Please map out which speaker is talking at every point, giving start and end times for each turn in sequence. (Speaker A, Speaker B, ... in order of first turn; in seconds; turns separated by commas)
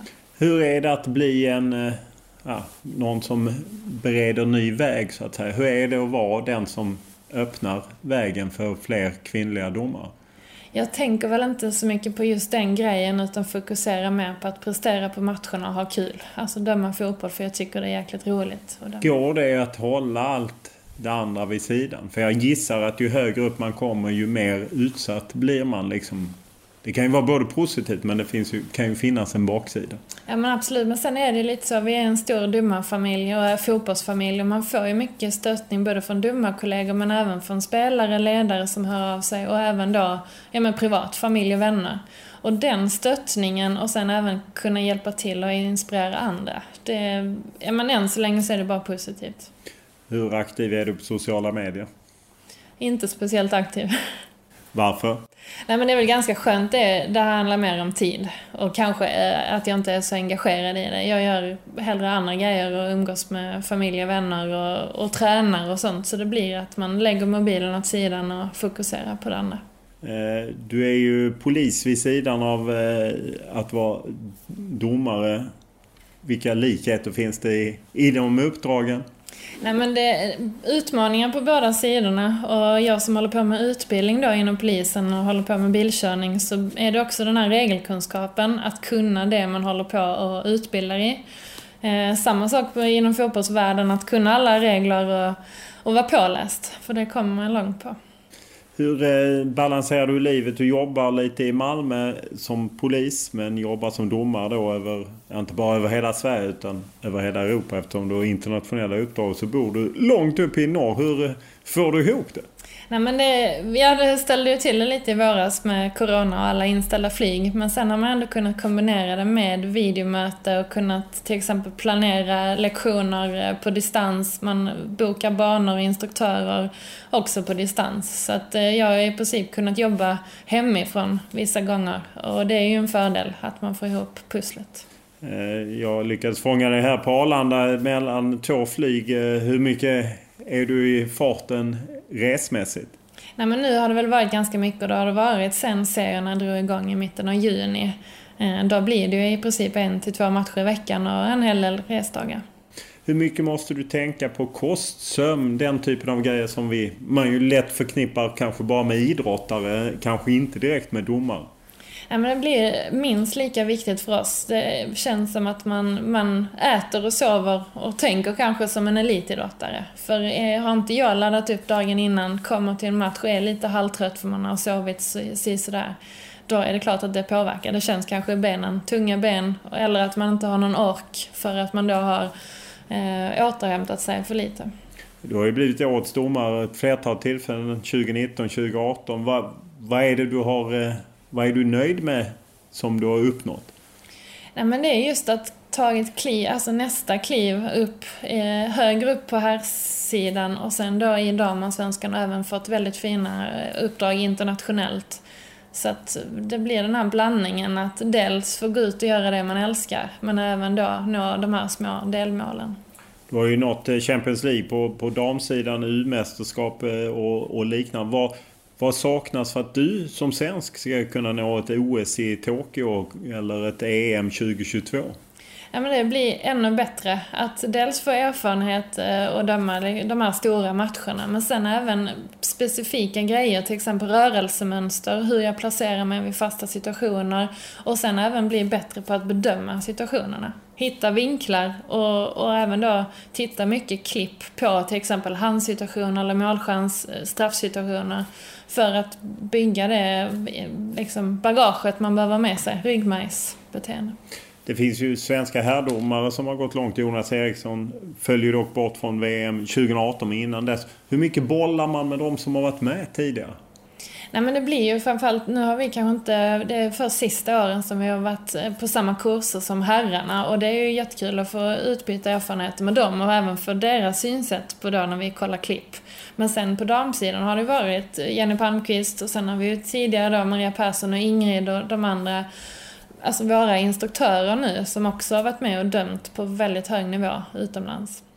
Speaker A: 0.4-10.1, Speaker B: 10.7-19.1, Speaker A: 19.0-30.0, Speaker B: 30.3-49.5, Speaker A: 50.1-51.9, Speaker B: 52.8-53.9, Speaker A: 54.7-55.2, Speaker B: 55.7-69.6, Speaker A: 70.0-75.5, Speaker A: 76.2-79.0, Speaker B: 79.6-91.2, Speaker B: 91.8-98.0, Speaker A: 98.8-112.5, Speaker B: 112.9-134.8, Speaker A: 135.2-142.9, Speaker B: 143.4-152.4, Speaker A: 153.1-161.5, Speaker B: 162.1-175.9, Speaker B: 176.5-182.3, Speaker B: 182.9-184.7, Speaker A: 185.2-193.7, Speaker B: 194.6-212.8, Speaker A: 213.3-225.2, Speaker B: 225.7-254.2, Speaker A: 254.7-263.6, Speaker B: 264.3-282.5, Speaker B: 283.2-288.2